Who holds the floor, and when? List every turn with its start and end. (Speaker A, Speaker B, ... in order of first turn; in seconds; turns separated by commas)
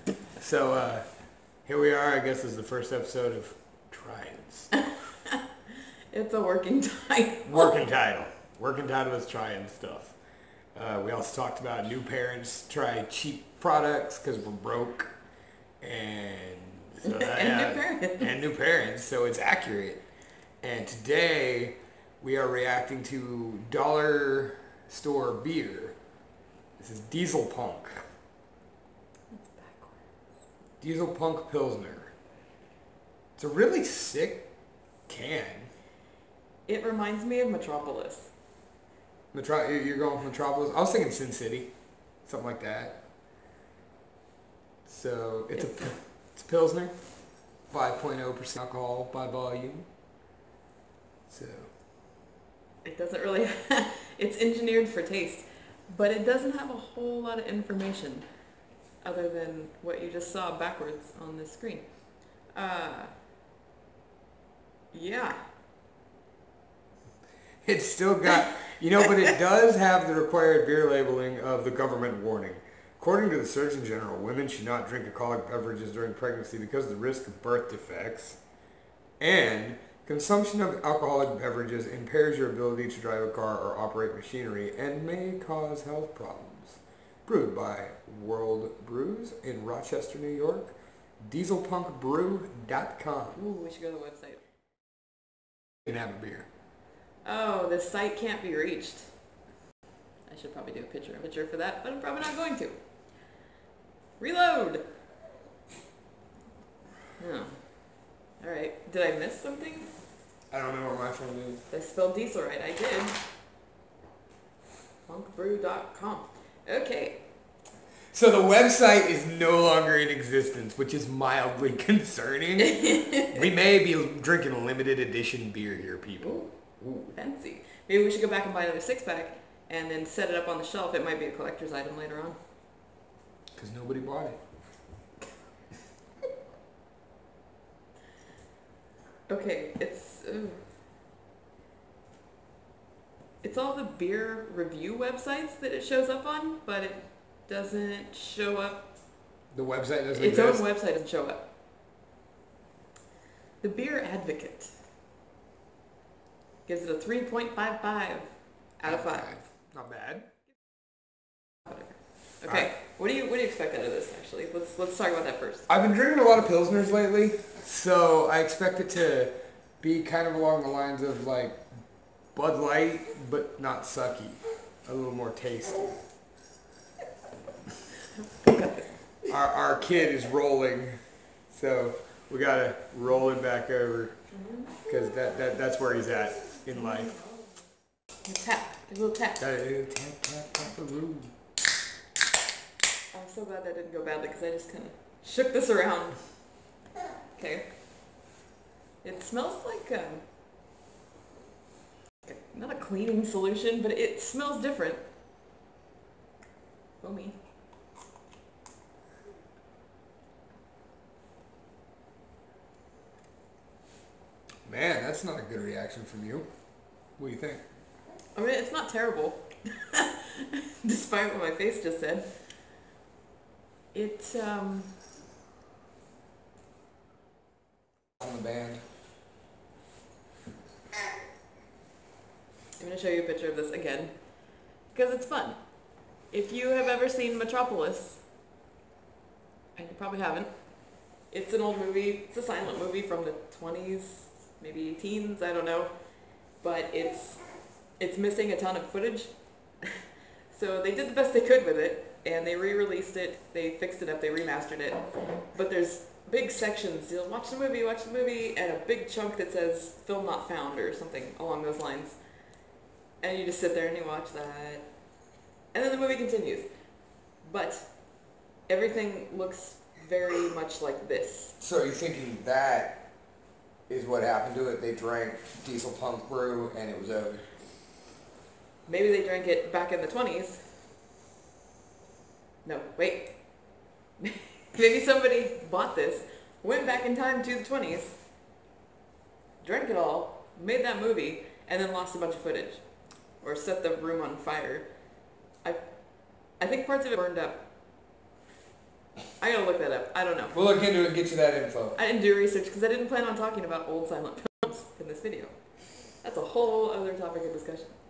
Speaker A: 0.4-1.1, Speaker A: 1.6-4.7, Speaker B: 4.7-7.7, Speaker A: 7.5-10.2, Speaker A: 10.8-15.1, Speaker A: 15.8-20.0, Speaker B: 17.1-18.3, Speaker A: 20.6-26.0, Speaker A: 26.8-28.0, Speaker B: 29.3-30.0, Speaker A: 30.8-32.1, Speaker A: 33.4-34.5, Speaker A: 35.1-35.7, Speaker B: 36.7-38.3, Speaker A: 39.3-41.7, Speaker A: 42.2-43.0, Speaker A: 44.9-46.9, Speaker B: 45.5-45.9, Speaker A: 47.7-49.9, Speaker A: 51.3-51.7, Speaker B: 52.8-58.3, Speaker B: 59.0-61.9, Speaker B: 62.5-63.1, Speaker B: 64.9-65.3, Speaker A: 67.6-78.4, Speaker A: 79.2-93.4, Speaker B: 93.3-94.4, Speaker A: 95.9-96.5, Speaker B: 97.2-99.1, Speaker B: 100.3-102.8, Speaker B: 104.2-104.8, Speaker B: 107.2-107.6, Speaker B: 108.4-109.9, Speaker A: 110.5-111.6, Speaker B: 111.7-113.2, Speaker B: 115.1-117.2, Speaker A: 118.1-127.1, Speaker B: 122.6-123.4, Speaker B: 127.1-132.4, Speaker A: 133.6-134.4, Speaker B: 139.3-140.6, Speaker B: 143.4-148.9, Speaker A: 149.5-150.7, Speaker B: 150.2-151.5, Speaker B: 153.6-154.7, Speaker B: 156.7-158.3, Speaker B: 158.8-159.3, Speaker A: 158.9-160.3, Speaker B: 161.7-165.7, Speaker A: 165.7-171.6, Speaker A: 172.3-175.9, Speaker B: 178.2-178.9, Speaker A: 179.2-181.0, Speaker A: 181.5-184.2, Speaker A: 184.9-187.2, Speaker B: 188.2-189.4, Speaker A: 189.4-191.3, Speaker B: 193.1-196.2, Speaker B: 197.4-197.7, Speaker B: 199.0-200.2, Speaker B: 202.2-205.0, Speaker B: 207.0-207.4, Speaker A: 214.7-216.5, Speaker A: 217.2-217.6, Speaker B: 218.3-222.3, Speaker B: 223.9-224.9, Speaker A: 228.2-228.8, Speaker B: 232.8-234.1, Speaker B: 234.9-235.6, Speaker B: 236.3-238.2, Speaker B: 239.8-240.5, Speaker B: 241.3-245.9, Speaker B: 246.6-247.4, Speaker B: 248.0-262.2, Speaker B: 263.2-264.9, Speaker B: 265.7-266.7, Speaker B: 267.4-267.9, Speaker B: 268.7-271.6, Speaker A: 271.6-273.1, Speaker A: 273.9-277.4, Speaker B: 278.9-280.6, Speaker B: 282.6-283.4, Speaker B: 284.2-288.1, Speaker B: 289.6-292.8, Speaker B: 293.4-294.9, Speaker B: 296.6-297.7, Speaker B: 299.4-300.6, Speaker A: 300.6-302.0, Speaker B: 302.0-305.6, Speaker B: 306.2-307.9